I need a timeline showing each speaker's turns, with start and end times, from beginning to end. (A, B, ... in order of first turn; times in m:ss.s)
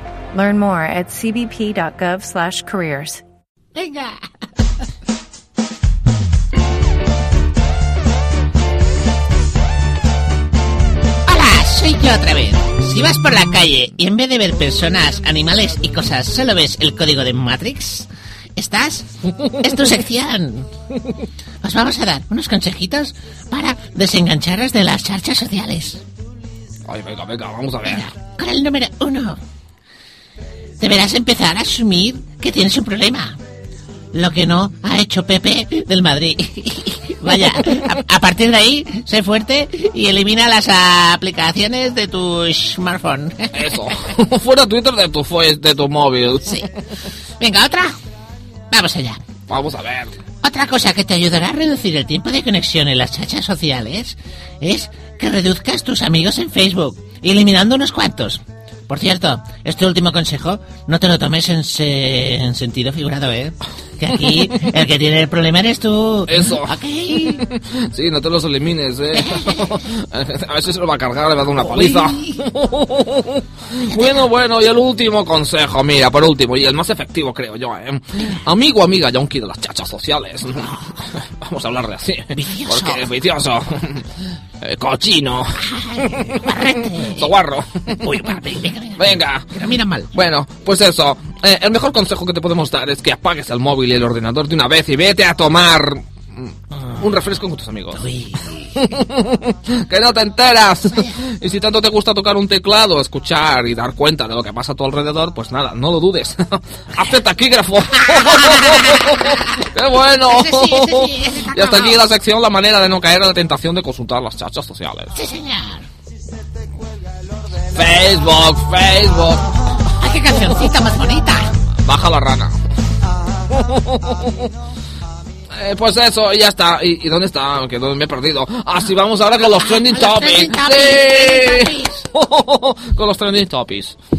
0:00.3-0:03.2 A
0:03.7-0:04.2 B
0:11.2-0:20.7 B
0:21.6-0:26.0 B
0:26.8-0:28.1 C
0:27.8-0:29.4 B
0:30.8-0:33.4 B
0:34.1-0:43.6 B
0:43.5-0:46.7 C
0:47.4-0:48.0 B
0:48.7-0:49.2 B
0:49.5-0:50.2 C
0:50.4-1:07.4 B
1:06.3-1:28.4 C
1:09.1-1:09.8 B
1:11.5-1:12.5 B
1:22.3-1:23.1 B
1:25.7-1:27.3 B
1:27.9-1:30.1 B
1:29.0-1:29.6 C
1:30.1-1:38.0 C
1:37.9-1:38.8 B
1:38.7-1:55.1 C
1:48.0-1:52.0 B
1:55.1-1:55.9 B
1:57.7-1:59.6 C
1:59.9-2:01.5 B
2:01.8-2:02.6 C
2:03.5-2:04.5 C
2:05.5-2:14.0 C
2:09.4-2:12.0 B